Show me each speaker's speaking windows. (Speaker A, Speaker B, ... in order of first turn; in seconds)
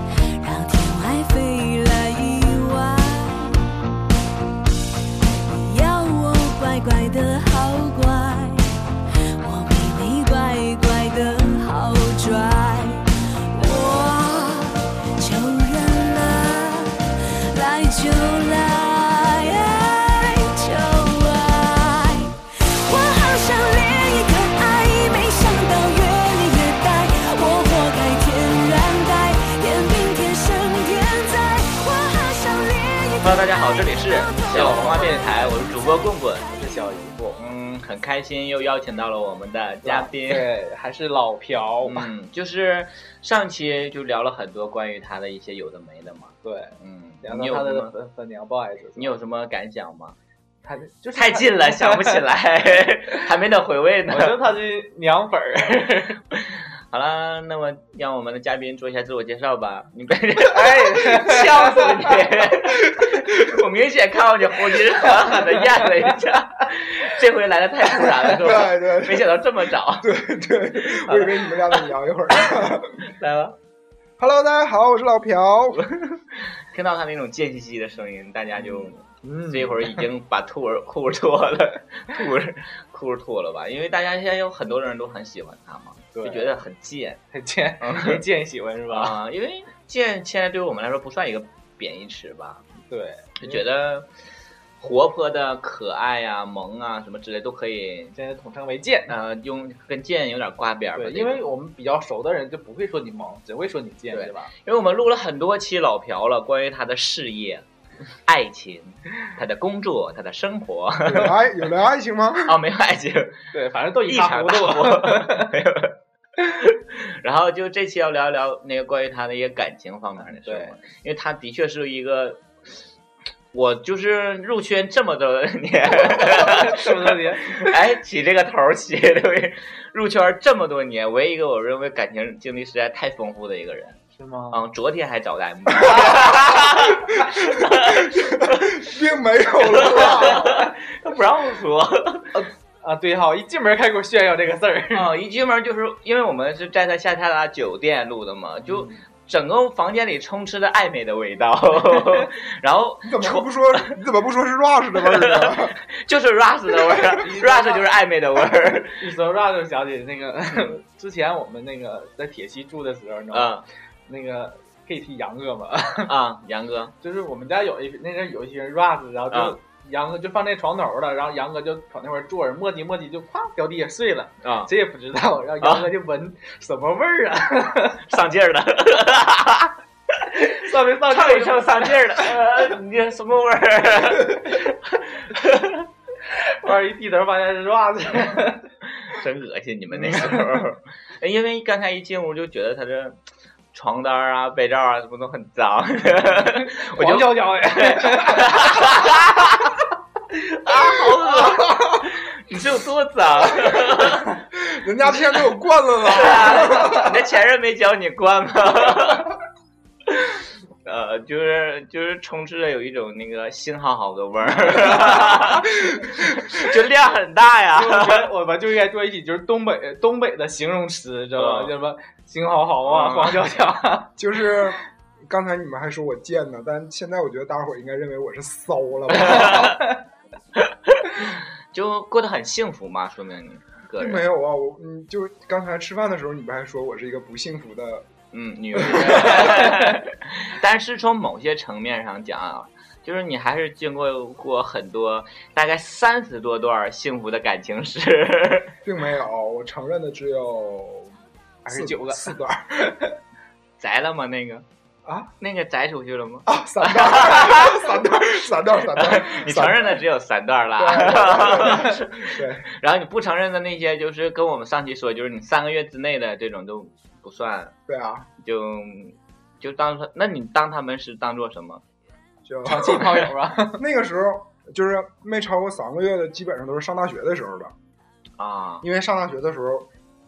Speaker A: 0.4-3.8, 5.5-8.8, 9.4-36.6
Speaker B: 33.2-36.5, 37.4-40.5, 41.8-47.9, 49.0-50.1, 51.1-54.4, 56.4-70.0, 71.0-71.6, 73.0-73.6, 75.9-87.2, 87.8-88.2, 88.9-92.6, 93.4-94.1, 94.8-98.1, 99.1-101.5, 104.1-107.6, 108.2-111.4, 112.5-113.4, 114.1-116.0, 116.5-122.4, 123.5-134.0, 134.5-138.8, 139.7-142.3, 144.9-153.9, 155.1-159.0, 163.3-163.6, 166.0-166.9, 169.3-169.6, 174.4-174.7, 175.6-175.9, 178.1-185.9, 189.0-193.2, 193.7-199.8, 200.3-204.3, 206.1-209.3, 210.8-218.3, 221.4-221.7, 222.8-223.4, 229.1-229.8, 230.6-234.2, 238.3-248.8, 253.8-254.6, 255.4-257.8, 258.9-267.7, 268.4-271.8, 278.4-278.9
Speaker C: 34.4-35.4, 36.5-37.4, 39.8-42.1, 46.4-49.2, 50.6-52.2, 54.1-56.2, 60.5-62.2, 65.1-65.5, 78.6-80.0, 86.1-86.5, 87.3-89.2, 92.8-93.6, 98.1-99.2, 101.0-104.5, 113.5-115.5, 120.3-120.7, 126.0-127.7, 134.2-134.6, 142.3-145.1, 148.6-149.0, 157.1-157.9, 159.0-163.5, 164.1-166.1, 167.0-178.0, 180.4-182.2, 186.3-188.7, 189.9-190.6, 196.1-199.1, 217.6-224.2, 229.3-229.8, 251.6-253.1, 272.6-273.8
Speaker D: 63.0-63.6, 68.3-69.4, 70.0-73.0, 74.2-75.8, 111.0-112.6, 135.7-140.6, 153.0-155.8, 201.4-202.0, 203.7-207.2, 215.4-216.4, 224.2-229.7, 234.0-238.1, 238.7-239.6, 248.8-251.1, 251.7-252.9, 255.0-255.3, 256.4-260.0, 260.8-262.7, 267.9-268.3, 272.4-277.7, 278.8-279.9